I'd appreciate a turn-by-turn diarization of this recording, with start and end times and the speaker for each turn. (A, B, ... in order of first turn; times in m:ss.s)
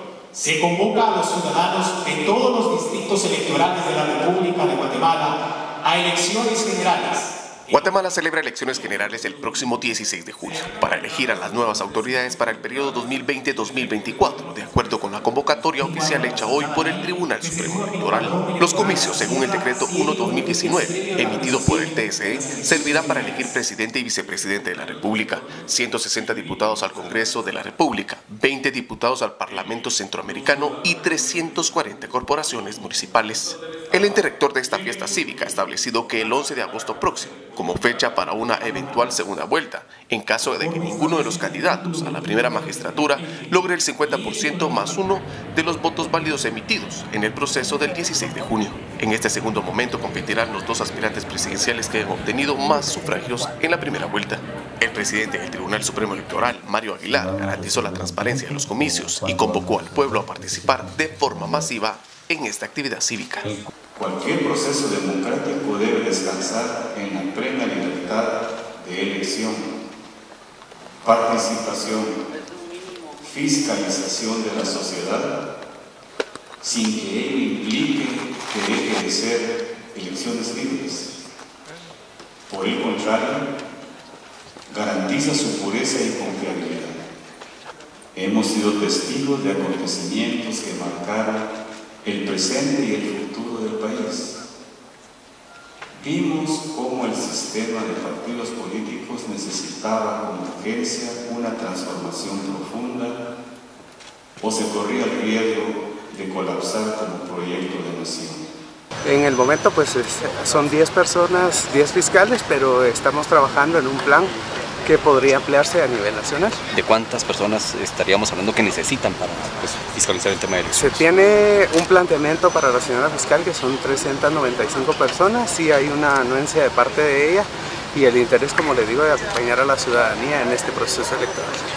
0:00.3-0:07.3 A
0:07.7-1:03.5 B
0:15.8-0:23.5 A
0:40.6-0:42.3 A
1:04.0-1:09.7 C
1:11.0-1:12.2 C
1:13.2-1:15.3 C
1:16.6-1:21.1 C
1:22.5-1:23.4 C
1:24.7-1:27.0 C
1:28.1-1:31.5 C
1:32.0-1:34.4 C
1:36.0-1:43.2 C
1:44.4-1:48.5 C
1:49.1-1:54.3 D
1:54.8-1:56.6 D
1:56.7-2:01.0 E
2:00.8-2:11.6 D